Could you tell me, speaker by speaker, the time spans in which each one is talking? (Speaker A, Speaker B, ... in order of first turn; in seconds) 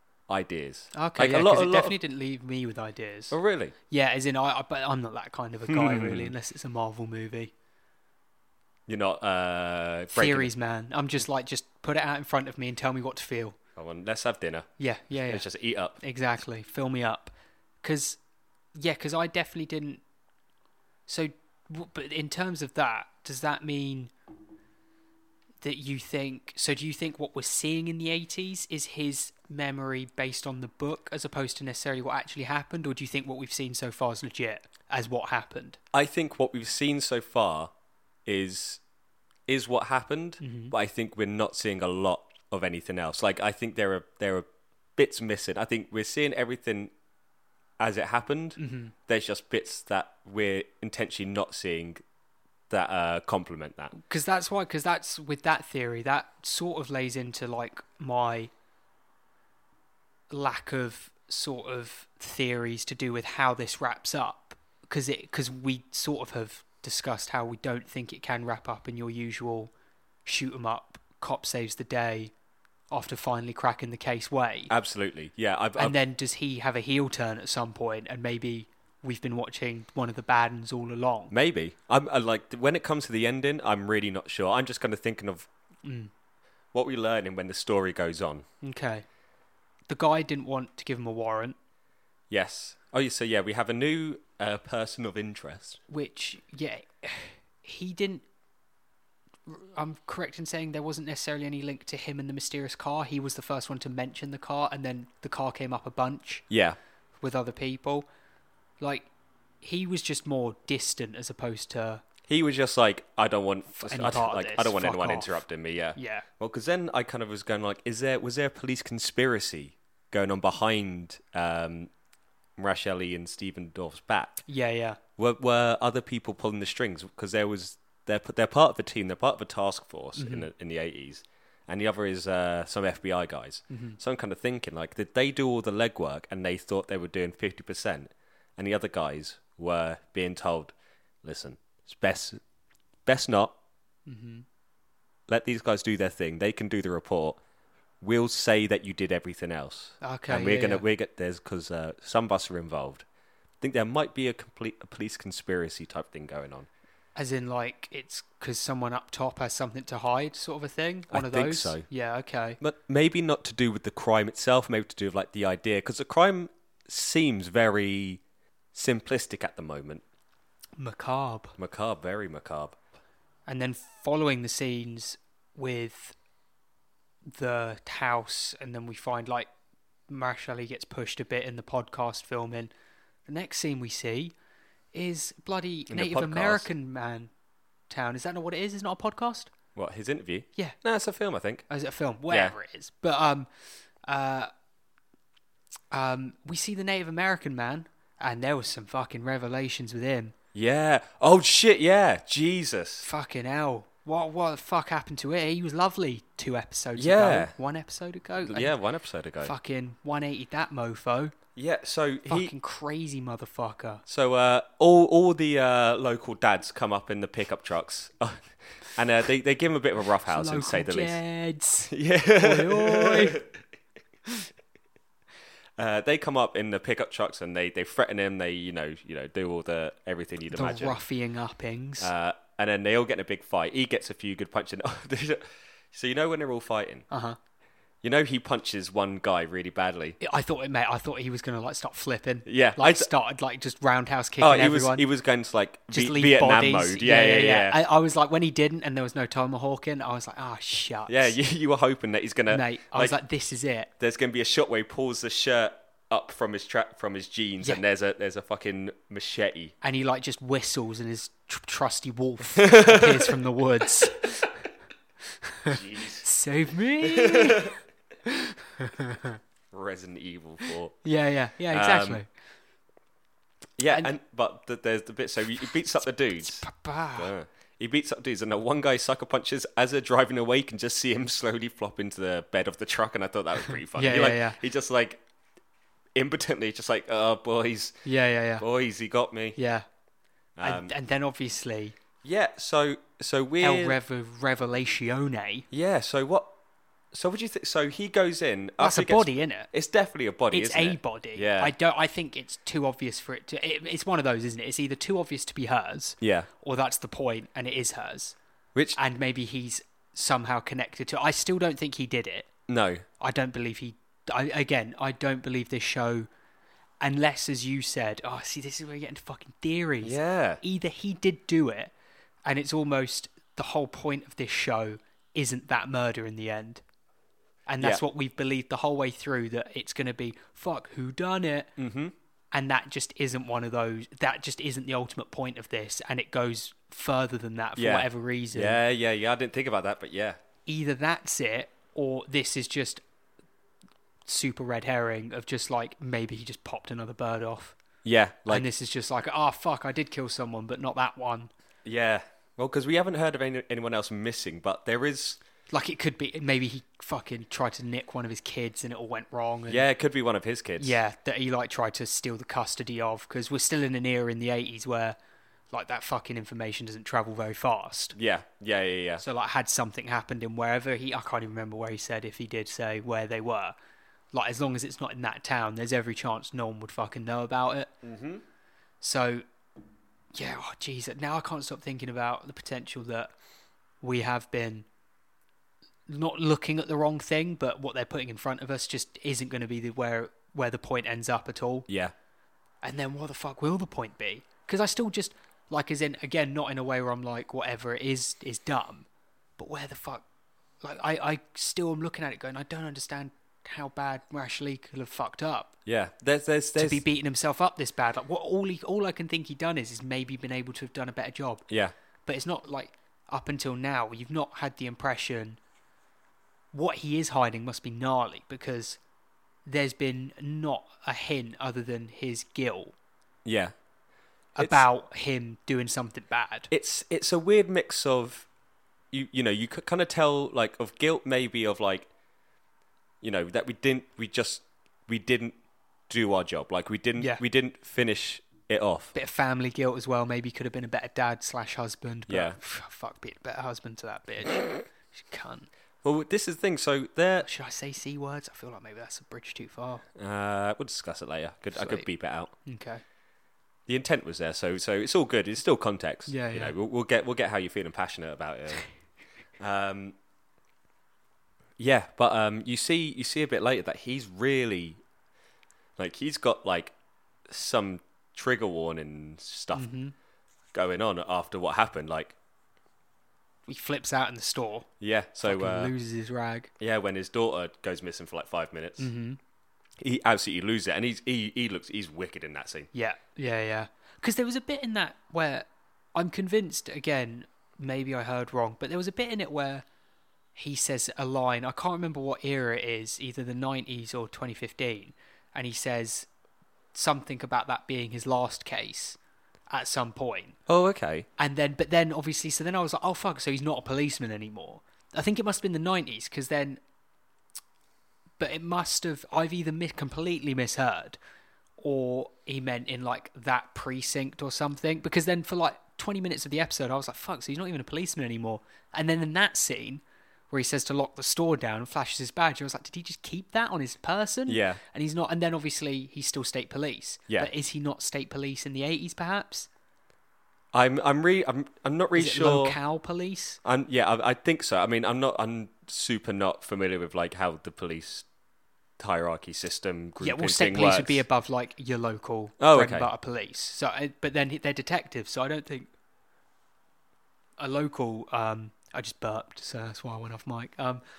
Speaker A: 0.3-1.9, 3.3-3.7, 5.7-6.3, 8.9-10.5, 13.8-14.7, 15.2-16.0, 35.9-37.7, 38.2-38.8, 39.5-46.9, 47.8-52.0, 52.7-53.9, 74.7-76.0, 81.3-85.5, 86.7-88.4, 92.3-95.8, 106.5-106.8, 112.3-121.9, 122.6-124.4, 125.2-142.4, 143.1-143.6, 145.3-147.4, 148.0-153.0, 153.6-156.7, 161.1-161.8, 162.6-168.2, 168.7-170.0, 171.6-172.8, 185.9-186.7, 189.7-191.7, 192.3-192.5, 200.5-203.1, 207.0-207.5, 208.4-209.5, 211.6-212.5, 214.1-221.2, 221.9-223.5, 225.8-231.0, 232.0-237.1, 238.0-240.2, 242.4-243.1, 244.4-247.8, 251.1-253.2, 254.0-259.7, 262.6-263.4, 265.6-266.2, 267.0-267.8, 269.7-270.9, 271.7-272.2, 273.8-285.2, 286.1-287.9, 288.6-289.6, 290.6-290.9, 292.2-294.0, 295.7-296.5, 297.1-301.7, 306.2-306.5, 312.7-313.0, 320.0-320.6, 331.8-332.1, 337.8-340.4, 348.0-348.6, 351.8-355.4, 359.7-360.9, 368.1-369.2, 378.0-378.4, 391.9-392.1, 405.9-407.0, 411.7-411.9, 423.4-423.7, 424.6-424.8, 426.7-428.5, 429.1-432.1, 433.2-435.6, 436.1-439.1, 442.3-442.6, 446.0-447.5, 450.1-452.5, 453.9-458.8, 459.6-460.1, 461.8-465.0, 466.0-466.9, 467.5-469.9, 470.7-472.3, 475.0-475.9, 476.8-479.1, 480.0-482.9, 500.7-501.3, 524.5-524.8, 530.7-532.8, 533.6-538.2, 539.0-541.2, 542.6-543.1
Speaker B: 0.9-3.4, 3.9-7.5, 10.1-13.6, 14.8-15.4, 16.0-18.2, 18.7-20.0, 21.1-24.1, 25.6-35.8, 40.4-40.7, 48.6-48.9, 53.9-58.5, 60.3-69.7, 70.2-72.3, 72.9-74.7, 75.8-81.3, 85.8-86.1, 88.6-89.0, 89.9-91.5, 95.9-98.2, 99.5-106.5, 107.2-108.1, 108.8-109.1, 109.6-112.0, 113.7-115.4, 116.0-116.3, 124.5-125.0, 130.2-130.5, 133.7-134.0, 144.1-144.4, 150.0-150.8, 157.2-162.6, 170.8-171.6, 173.4-176.2, 177.3-179.5, 180.1-182.7, 183.3-184.3, 184.9-187.3, 187.9-189.5, 191.7-193.5, 194.0-194.5, 195.9-200.3, 203.0-208.7, 209.4-211.3, 212.3-214.0, 220.2-223.4, 230.5-232.1, 237.1-237.4, 240.2-245.0, 245.9-251.3, 252.5-253.9, 259.8-264.6, 265.4-269.4, 271.0-272.3, 276.4-277.3, 283.9-284.6, 288.0-288.6, 289.6-289.9, 290.6-291.9, 293.6-295.6, 298.8-299.7, 300.5-308.3, 308.9-312.5, 313.2-316.3, 317.0-321.9, 322.4-326.8, 327.7-331.7, 332.5-338.8, 340.6-343.0, 344.3-347.8, 348.5-351.5, 355.7-359.8, 360.8-365.1, 365.7-368.1, 369.2-373.7, 374.3-377.9, 379.0-379.4, 380.3-383.3, 384.0-384.9, 386.1-391.9, 392.8-399.1, 399.6-400.2, 400.8-405.7, 406.8-411.6, 412.2-415.6, 416.7-419.0, 419.6-422.9, 424.6-426.7, 439.1-445.7, 447.4-450.0, 451.7-452.1, 452.6-453.0, 456.3-456.7, 469.7-470.1, 473.7-474.9, 475.4-476.7, 479.0-479.4, 482.9-489.8, 490.5-496.3, 496.9-499.2, 499.7-500.6, 501.4-506.8, 508.4-511.2, 511.8-529.7, 532.1-533.6, 540.2-545.9, 547.6-551.0